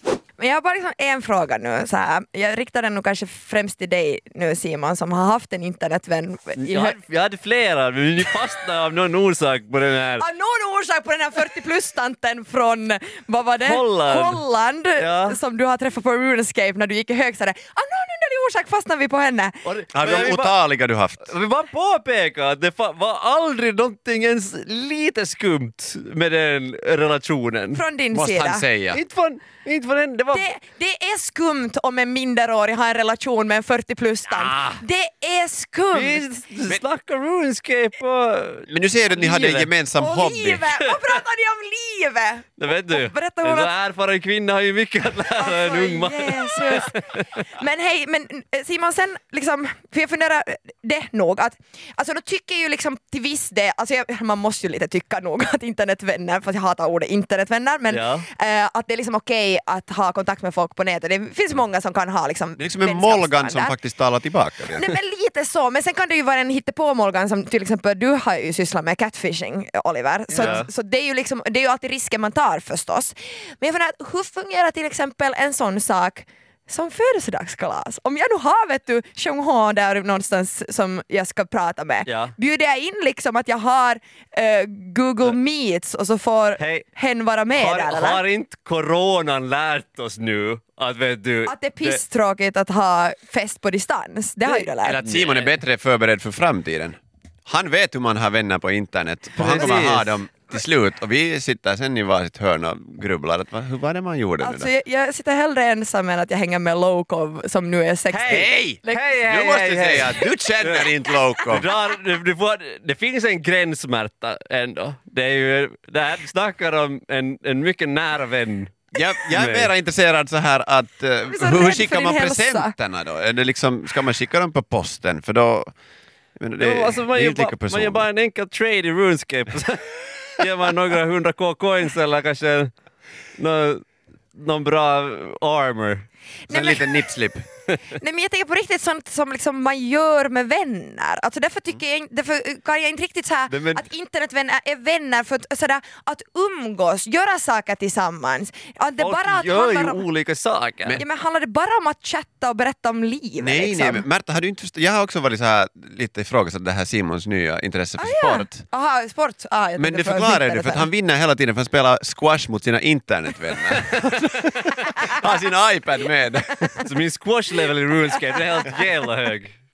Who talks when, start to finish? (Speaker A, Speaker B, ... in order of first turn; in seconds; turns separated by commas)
Speaker A: 0.4-7.0, Speaker B: 6.6-10.2, Speaker A: 10.2-19.6, Speaker B: 13.6-14.4, Speaker B: 15.0-15.4, Speaker B: 19.6-20.6, Speaker C: 19.9-21.3, Speaker B: 21.3-27.8, Speaker A: 27.7-28.7, Speaker C: 28.1-29.0, Speaker B: 28.9-30.5, Speaker A: 30.3-36.2, Speaker B: 34.3-34.8, Speaker B: 35.9-39.7, Speaker C: 38.7-40.7, Speaker A: 40.0-43.7, Speaker B: 40.8-41.2, Speaker B: 42.6-47.4, Speaker A: 45.4-63.8, Speaker B: 57.9-58.3, Speaker C: 62.6-64.9, Speaker A: 64.7-88.2, Speaker C: 70.3-70.7, Speaker B: 70.3-70.7, Speaker B: 82.1-82.3, Speaker B: 86.6-86.9, Speaker B: 87.5-92.0, Speaker A: 91.5-95.0, Speaker C: 94.6-104.7, Speaker B: 95.0-95.6, Speaker B: 99.4-100.2, Speaker A: 104.4-109.2, Speaker B: 108.1-110.9, Speaker C: 108.3-111.7, Speaker B: 111.4-119.7, Speaker C: 119.0-125.7, Speaker A: 121.3-122.7, Speaker C: 126.4-128.1, Speaker B: 126.6-132.7, Speaker B: 133.4-136.1, Speaker A: 136.5-137.0, Speaker C: 136.5-137.4, Speaker A: 137.9-150.0, Speaker B: 143.5-143.8, Speaker B: 149.0-151.0, Speaker A: 151.0-154.1, Speaker C: 153.4-158.6, Speaker A: 158.0-160.9, Speaker C: 159.8-166.8, Speaker B: 163.8-164.7, Speaker B: 166.8-169.6